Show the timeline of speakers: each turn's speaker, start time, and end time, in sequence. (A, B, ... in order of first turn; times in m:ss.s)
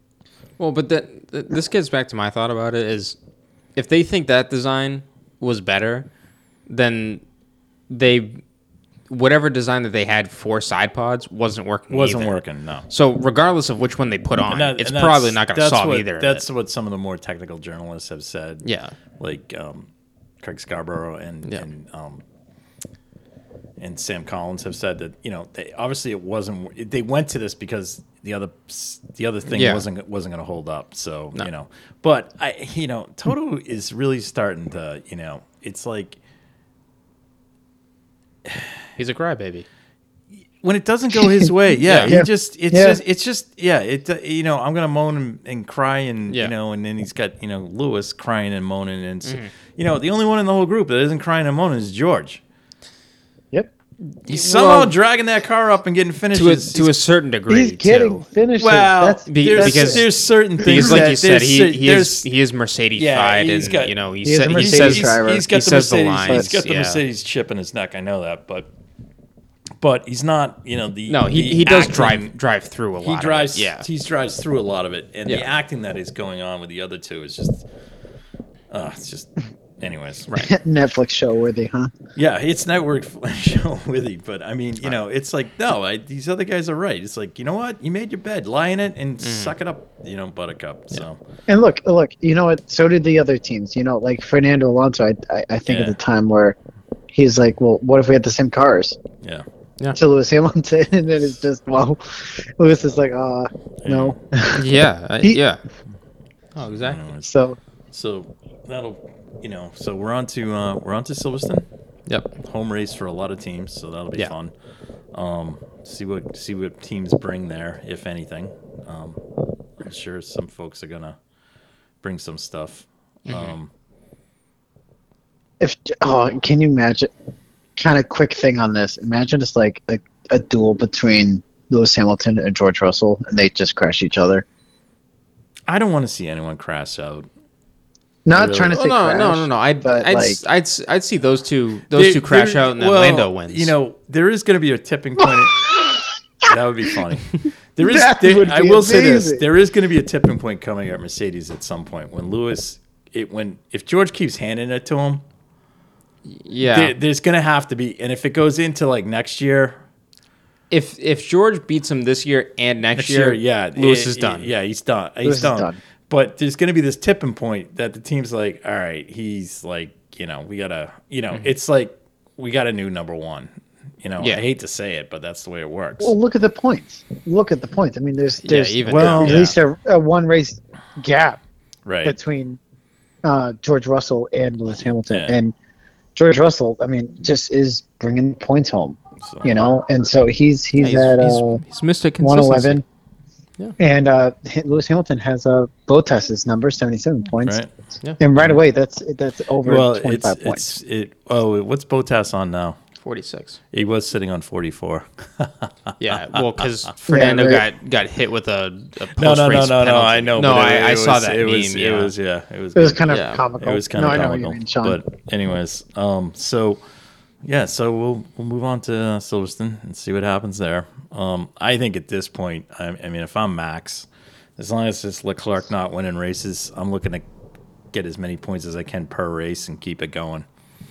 0:00.6-0:03.2 A
0:03.8-0:06.1 A
0:06.7-0:07.2 A
0:07.9-0:08.4 A
0:09.1-0:16.4 A
0:11.9-0:12.9 B
0:14.4-0:18.6 B
0:18.6-0:18.9 A
0:19.2-0:22.2 B
0:23.8-0:36.2 B
0:29.5-0:29.8 A
0:39.0-0:39.6 A
0:40.6-0:52.4 B
0:41.8-0:42.2 A
0:42.0-0:43.0 C
0:49.2-0:49.5 A
0:54.3-0:56.9 B
0:54.4-0:54.8 C
0:56.3-0:58.2 A
0:57.5-1:00.0 C
0:58.6-1:02.3 B
0:59.3-1:00.0 A
1:00.6-1:01.1 C
1:00.6-1:07.0 A
1:02.9-1:03.9 B
1:04.2-1:05.6 C
1:04.5-1:08.7 B
1:09.8-1:12.3 B
1:11.1-1:13.8 A
1:13.0-1:17.7 B
1:18.7-1:20.3 B
1:20.5-1:21.9 C
1:22.2-1:31.2 B
1:29.2-1:29.5 A
1:31.5-1:36.6 C
1:35.7-1:36.0 B
1:37.1-1:39.0 C
1:40.0-1:44.6 C
1:43.8-1:44.2 B
1:44.5-1:45.6 A
1:46.5-1:47.0 A
1:46.7-1:47.2 B
1:47.2-1:47.6 C
1:47.9-1:51.7 B
1:52.1-1:52.3 A
1:52.4-1:54.5 B
1:55.1-1:59.2 B
1:59.8-2:01.2 B
2:02.0-2:03.7 B
2:03.3-2:03.5 A
2:05.6-2:07.1 C
2:07.8-2:14.4 C
2:15.7-2:17.3 B
2:18.2-2:20.4 C
2:18.3-2:18.8 B
2:18.7-2:23.7 A
2:21.9-2:25.7 B
2:25.2-2:26.5 C
2:26.5-2:35.2 B
2:27.8-2:29.4 C
2:36.2-2:36.9 A
2:36.7-2:39.8 B
2:40.7-2:44.5 A
2:43.0-2:53.5 B
2:45.2-2:45.8 C
2:54.0-2:56.1 B
2:56.0-3:01.4 C
2:58.4-2:59.5 A
2:58.8-2:59.5 B
3:01.8-3:02.1 B
3:02.0-3:02.6 C
3:03.2-3:05.5 C
3:05.1-3:05.4 B
3:06.2-3:11.6 C
3:09.2-3:09.6 B
3:10.8-3:12.8 A
3:12.2-3:12.8 C
3:13.8-3:17.6 C
3:17.4-3:17.7 B
3:18.2-3:20.7 C
3:19.6-3:22.8 B
3:23.0-3:23.6 A
3:23.7-3:26.9 B
3:26.0-3:32.1 A
3:27.1-3:27.6 C
3:29.2-3:33.0 B
3:32.8-3:35.0 C
3:33.1-3:33.4 A
3:33.6-3:36.8 B
3:37.4-3:47.3 B
3:47.9-3:50.5 B